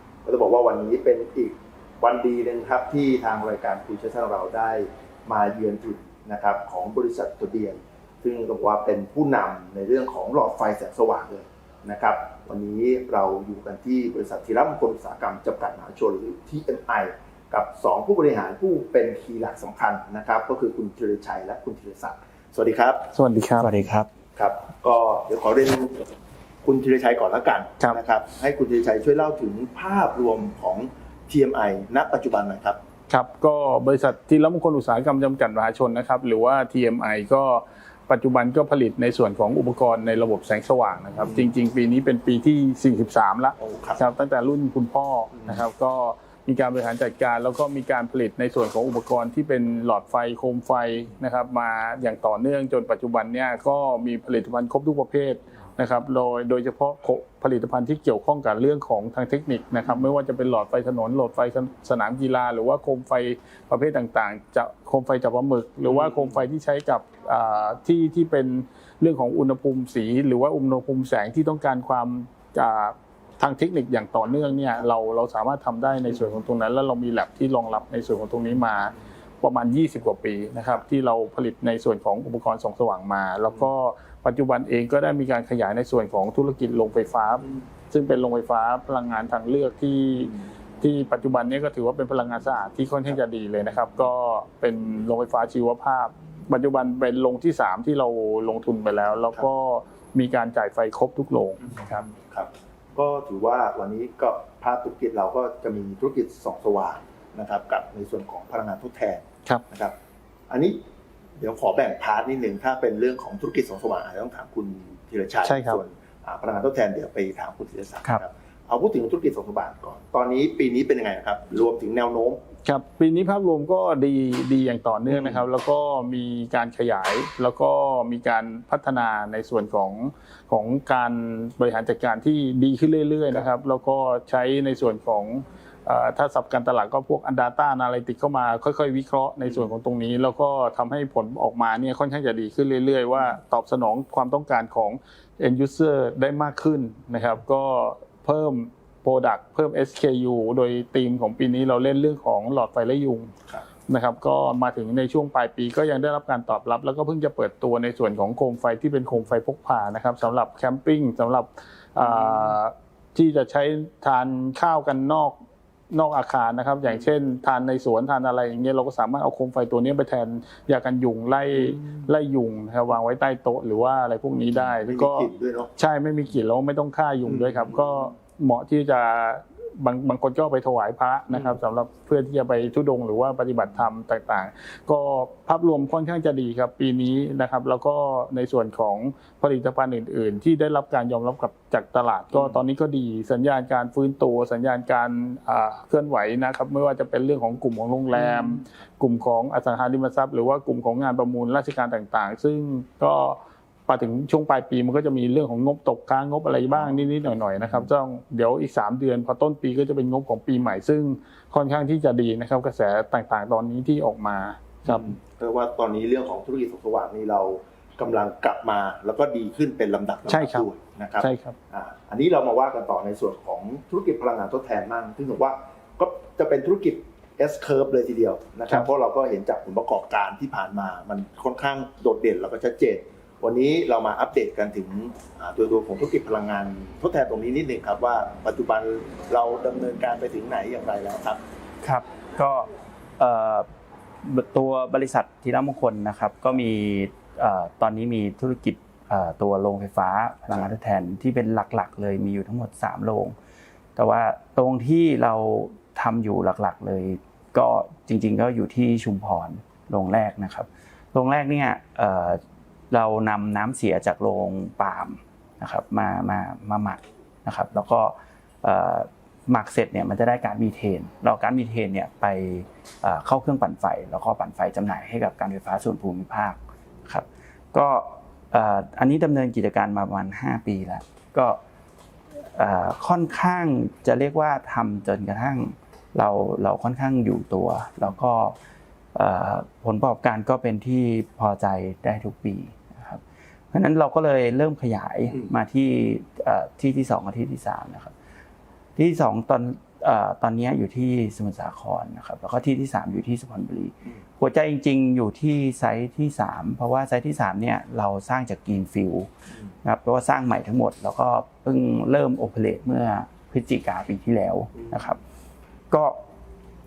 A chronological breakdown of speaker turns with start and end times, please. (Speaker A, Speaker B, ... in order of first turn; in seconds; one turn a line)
Speaker A: 0.2-23.1
Speaker B: 23.1-23.7
Speaker C: 23.6-24.1
Speaker A: 24.4-26.0
Speaker A: 26.6-32.8
Speaker B: 33.1-102.0
Speaker A: 41.2-41.5
Speaker A: 43.6-44.0
Speaker A: 45.4-45.6
Speaker A: 65.9-66.5
Speaker A: 101.7-109.9
Speaker A: 110.5-110.8
Speaker A: 111.4-122.4
Speaker B: 115.4-115.8
Speaker B: 122.6-153.3
Speaker A: 125.1-125.5
Speaker A: 139.5-139.7
Speaker B: 153.9-165.4
Speaker A: 162.0-162.6
Speaker B: 165.9-215.1
Speaker A: 171.5-172.1
Speaker A: 174.5-175.7
Speaker A: 177.3-178.1
Speaker A: 181.3-181.6
Speaker A: 192.3-192.6
Speaker A: 198.2-198.7
Speaker A: 206.7-207.9
Speaker A: 214.8-241.4
Speaker B: 220.3-220.7
Speaker B: 221.2-221.6
Speaker C: 241.8-243.7
Speaker C: 244.2-253.4
Speaker C: 254.0-262.4
Speaker C: 262.9-281.6
Speaker C: 282.4-288.6
Speaker C: 289.1-298.1
Speaker C: 299.0-309.3
Speaker C: 309.8-315.2
Speaker A: 314.8-315.1
Speaker C: 315.9-316.2